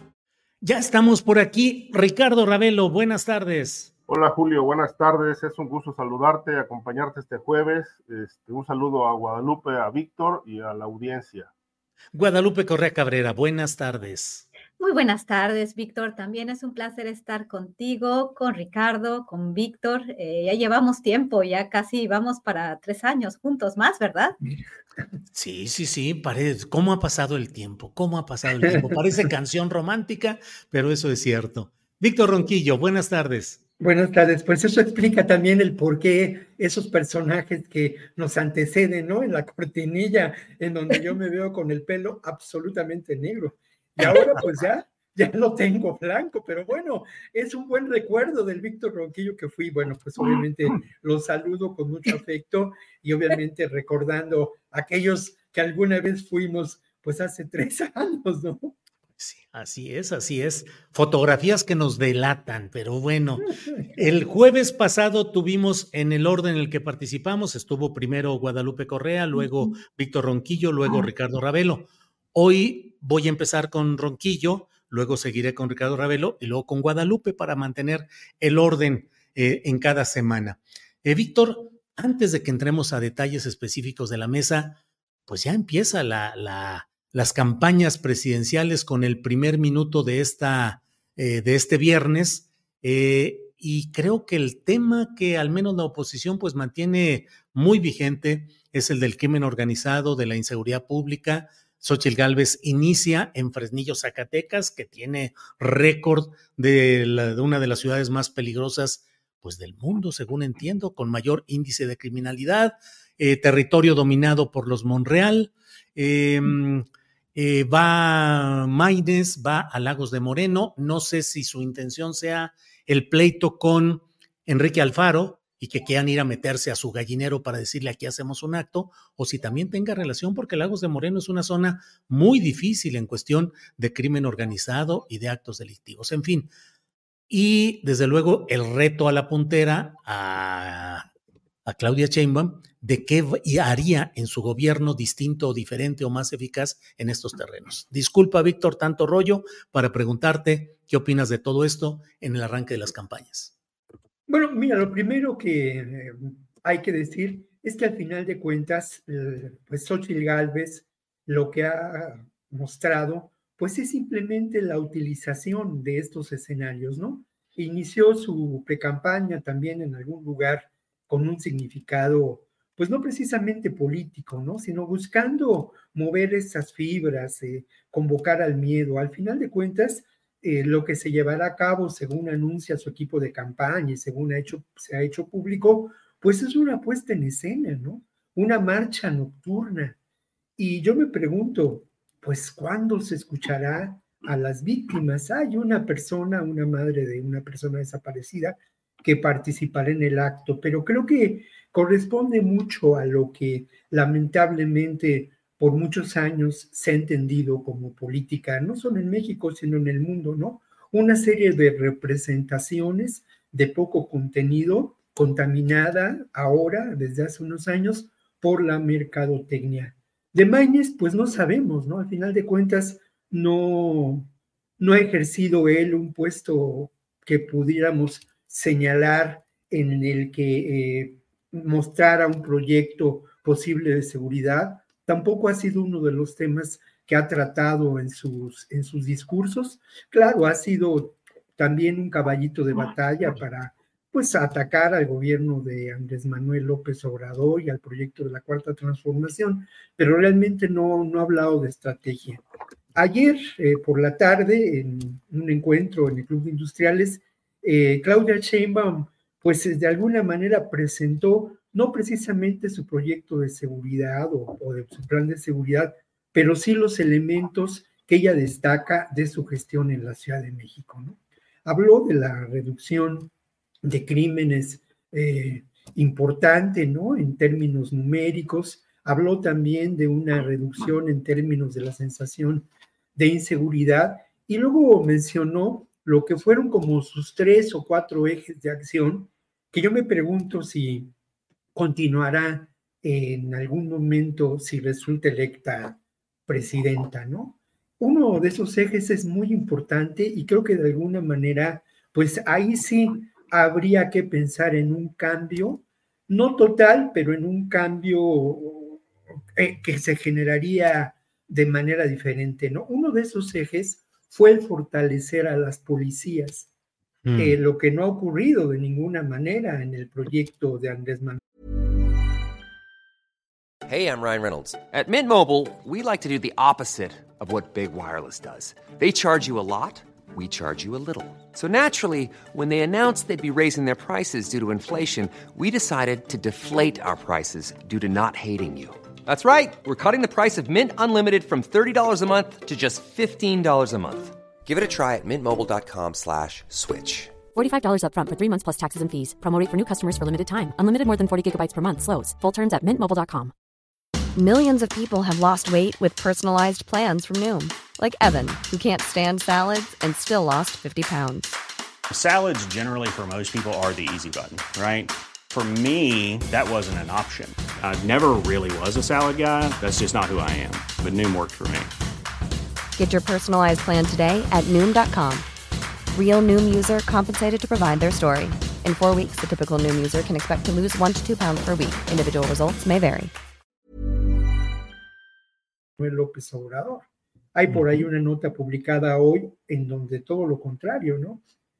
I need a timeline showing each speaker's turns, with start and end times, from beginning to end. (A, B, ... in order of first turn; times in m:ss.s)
0:00.6-0:03.9 A
0:04.1-0:11.5 B
0:12.1-0:14.4 A
0:14.8-0:24.4 C
0:25.3-0:33.6 A
0:33.8-0:58.7 D
0:59.2-2:16.5 A
2:17.3-2:21.1 A
2:21.6-2:33.5 A
2:34.3-3:10.0 D
3:10.6-4:33.3 D
4:33.8-4:51.1 D
4:51.7-5:16.7 D
5:17.2-5:17.6 A
5:17.4-5:21.4 D
5:23.8-5:47.4 E
5:47.5-5:53.5 F
5:54.3-6:01.5 G
6:02.1-6:11.9 H
6:13.0-6:15.4 G
6:16.1-6:23.3 G
6:26.0-6:31.4 D